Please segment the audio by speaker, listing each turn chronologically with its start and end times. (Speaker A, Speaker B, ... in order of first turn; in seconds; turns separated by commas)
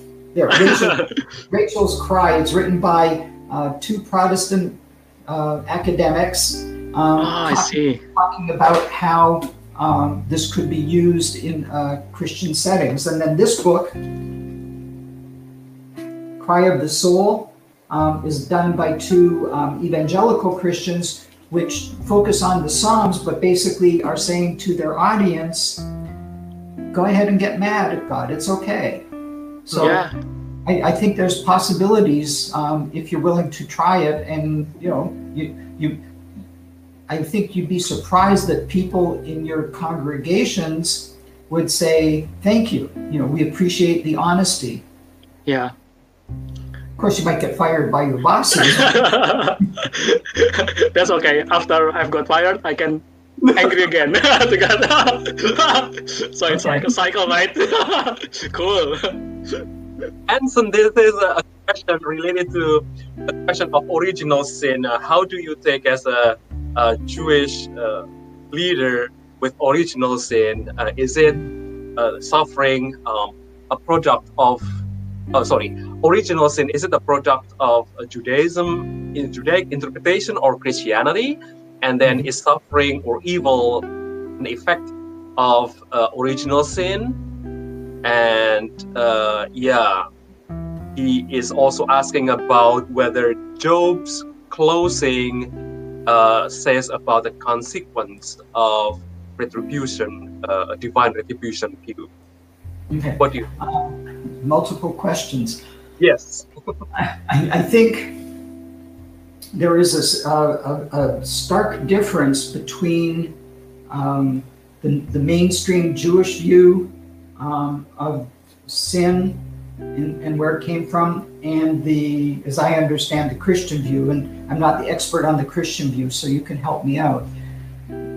Speaker A: 0.3-14.0, Speaker B: 0.6-1.2, Speaker B: 7.2-8.0, Speaker A: 16.4-25.9, Speaker A: 26.9-29.1, Speaker A: 29.7-30.0, Speaker B: 29.8-30.1, Speaker A: 30.6-36.0, Speaker A: 37.1-44.8, Speaker B: 45.5-45.7, Speaker A: 47.0-49.1, Speaker B: 48.7-59.6, Speaker A: 56.5-56.9, Speaker C: 60.3-74.7, Speaker C: 75.3-83.8, Speaker C: 84.4-87.2, Speaker C: 88.0-90.0, Speaker C: 91.0-95.5, Speaker C: 96.0-102.1, Speaker A: 102.9-105.6, Speaker C: 103.2-103.5, Speaker C: 106.0-106.5, Speaker A: 106.9-108.2, Speaker A: 109.5-113.3, Speaker A: 113.9-119.4, Speaker A: 119.9-127.2